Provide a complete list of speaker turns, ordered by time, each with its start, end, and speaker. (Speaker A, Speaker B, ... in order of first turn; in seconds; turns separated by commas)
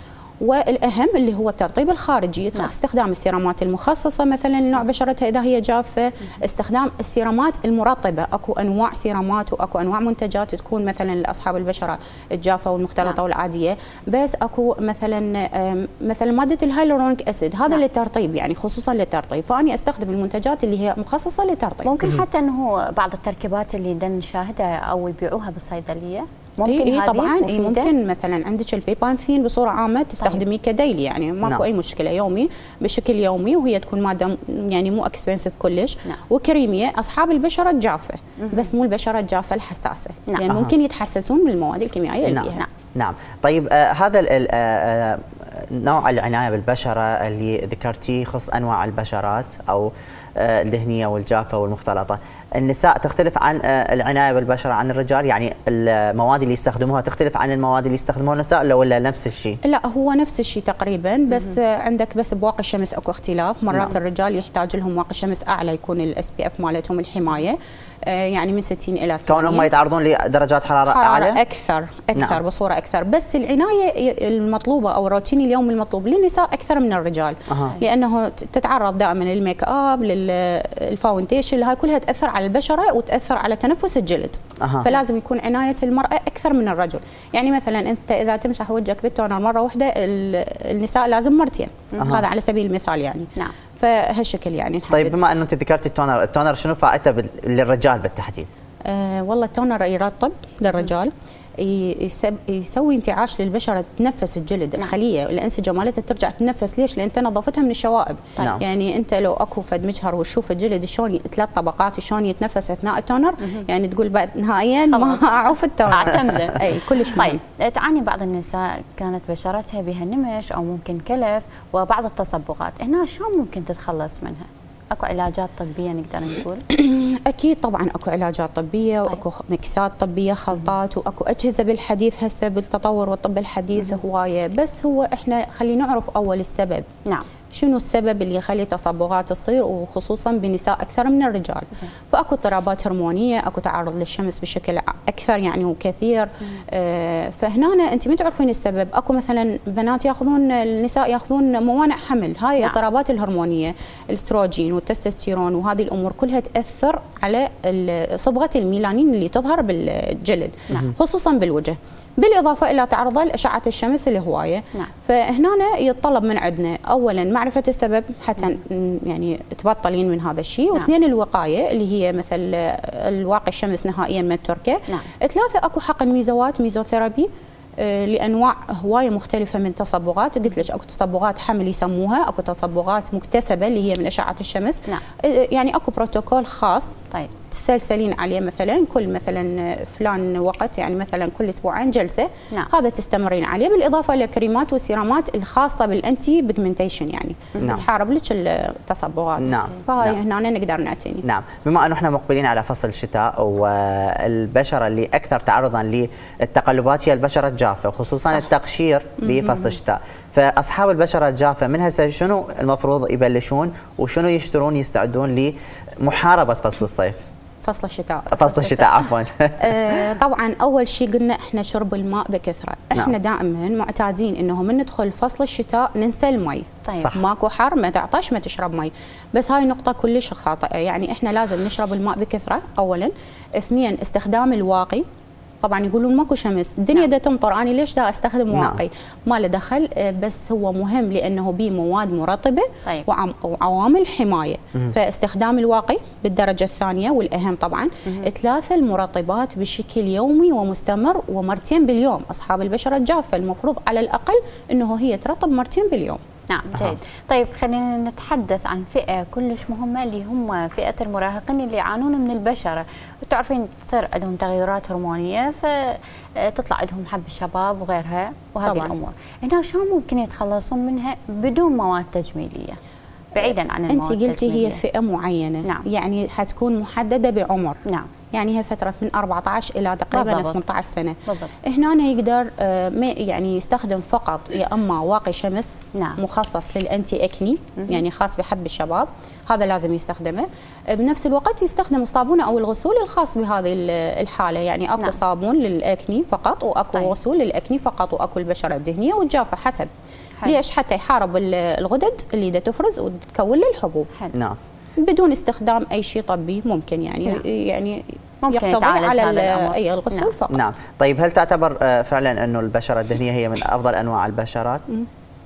Speaker A: 0.4-21.9, Speaker B: 21.8-27.9, Speaker A: 26.7-42.6, Speaker B: 38.4-38.7, Speaker C: 40.5-40.7, Speaker C: 42.2-59.6, Speaker A: 59.6-69.7, Speaker C: 63.7-64.0, Speaker C: 69.3-71.4, Speaker A: 70.9-95.2, Speaker C: 84.6-84.9, Speaker C: 92.0-92.2, Speaker C: 94.9-98.5, Speaker A: 98.8-117.4, Speaker B: 114.9-115.3, Speaker B: 115.8-126.6, Speaker A: 126.7-136.8, Speaker A: 137.5-186.9, Speaker A: 187.5-201.2, Speaker C: 199.4-200.2, Speaker C: 201.2-217.2, Speaker A: 209.2-209.7, Speaker A: 217.6-219.1, Speaker C: 218.3-220.0, Speaker A: 219.6-235.0, Speaker B: 226.8-227.1, Speaker A: 235.6-256.2, Speaker C: 238.5-238.8, Speaker B: 256.5-272.8, Speaker A: 268.6-268.9, Speaker B: 273.3-274.8, Speaker A: 273.4-277.8, Speaker A: 278.3-299.9, Speaker B: 280.1-280.6, Speaker B: 281.3-281.5, Speaker B: 285.9-286.2, Speaker A: 300.4-304.1, Speaker A: 305.0-310.6, Speaker B: 308.4-310.3, Speaker C: 310.5-314.8